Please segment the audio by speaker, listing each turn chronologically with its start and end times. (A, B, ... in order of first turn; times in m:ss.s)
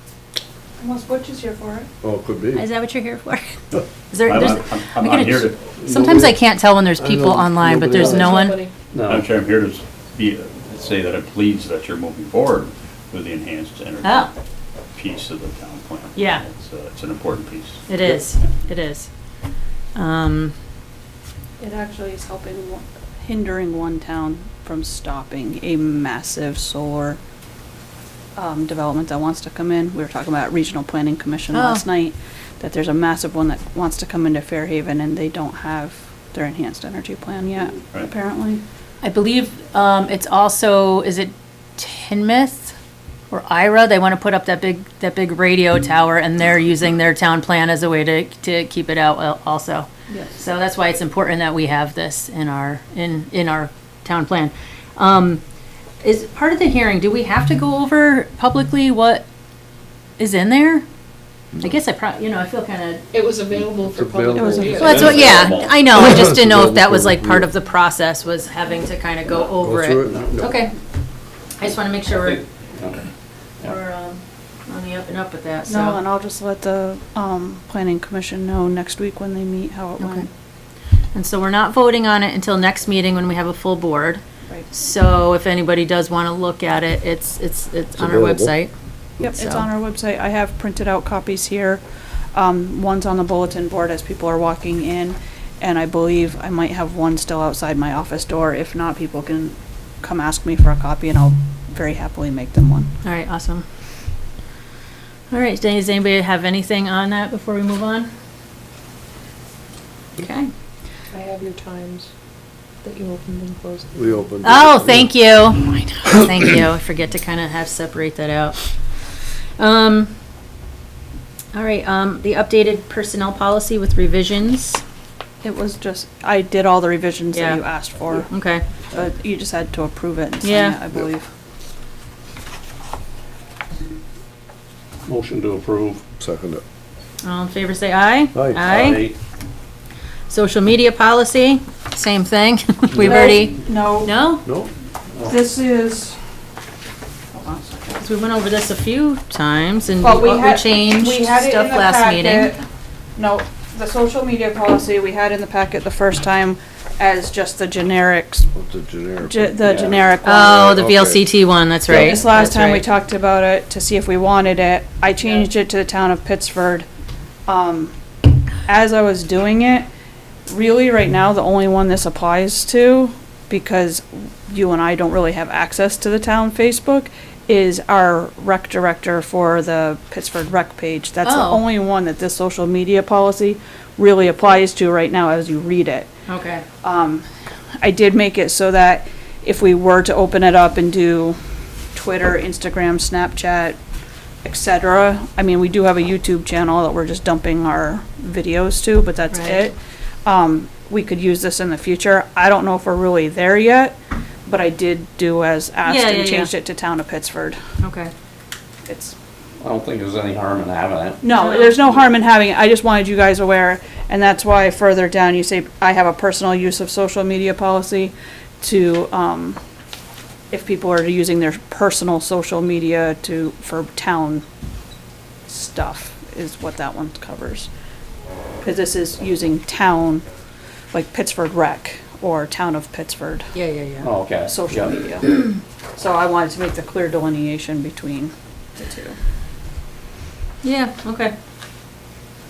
0:00.8-0:01.9 A
0:02.0-0:02.6 B
0:02.5-0:08.6 C
0:04.2-0:05.6 D
0:05.8-0:06.4 B
0:07.0-0:08.3 B
0:07.9-0:08.7 E
0:08.9-0:09.3 F
0:09.1-0:14.3 D
0:14.0-0:14.3 C
0:14.9-0:17.8 D
0:16.1-0:16.4 C
0:17.9-0:19.1 C
0:19.9-0:20.5 C
0:21.6-0:27.2 A
0:28.4-0:38.6 A
0:31.5-0:31.8 C
0:39.0-0:42.7 C
0:43.3-0:55.4 C
0:56.0-0:59.2 C
1:00.2-1:00.8 C
1:01.6-1:03.0 C
1:03.1-1:05.2 E
1:03.7-1:04.5 B
1:04.3-1:05.2 A
1:04.6-1:06.0 F
1:04.7-1:10.7 C
1:05.1-1:07.5 B
1:09.6-1:10.6 B
1:11.6-1:12.4 C
1:12.0-1:13.1 F
1:13.6-1:16.0 C
1:15.6-1:20.3 A
1:20.0-1:20.3 C
1:21.1-1:29.7 C
1:28.0-1:28.6 B
1:29.2-1:42.9 A
1:43.0-1:43.6 C
1:45.3-1:48.1 C
1:50.2-1:50.5 C
1:51.1-1:52.1 E
1:52.8-1:54.3 E
1:53.9-1:55.1 B
1:54.4-1:59.0 C
1:59.6-2:00.1 C
2:01.5-2:04.8 C
2:05.4-2:08.3 A
2:07.3-2:07.6 C
2:08.1-2:08.6 C
2:08.9-2:11.3 A
2:10.4-2:10.8 C
2:15.0-2:16.0 F
2:16.2-2:16.6 B
2:17.2-2:19.0 C
2:18.3-2:18.6 B
2:18.6-2:19.2 F
2:20.3-2:24.5 C
2:22.9-2:23.6 F
2:23.0-2:24.1 A
2:24.4-2:25.3 F
2:25.2-2:26.2 A
2:27.3-2:28.0 A
2:27.9-2:32.5 C
2:30.0-2:32.6 A
2:33.2-2:38.5 A
2:38.5-2:41.3 B
2:39.2-2:40.7 A
2:40.2-2:42.9 C
2:41.9-2:46.9 A
2:47.5-2:47.9 A
2:48.6-2:49.8 A
2:50.5-3:06.1 A
3:01.2-3:01.6 C
3:06.3-3:06.6 C
3:06.8-3:07.2 A
3:07.8-3:11.4 A
3:11.9-3:13.8 A
3:14.4-3:27.6 A
3:19.3-3:19.6 C
3:25.8-3:26.5 C
3:27.8-3:28.1 C
3:28.9-3:29.1 A
3:29.6-3:31.2 F
3:31.2-3:39.6 A
3:31.3-3:31.8 C
3:40.5-3:44.4 A
3:45.5-3:47.7 A
3:48.6-3:50.2 A
3:50.9-3:53.5 A
3:53.5-3:54.1 C
3:54.0-3:54.9 F
3:54.4-3:55.4 A
3:56.0-3:59.2 A
4:00.6-4:01.3 C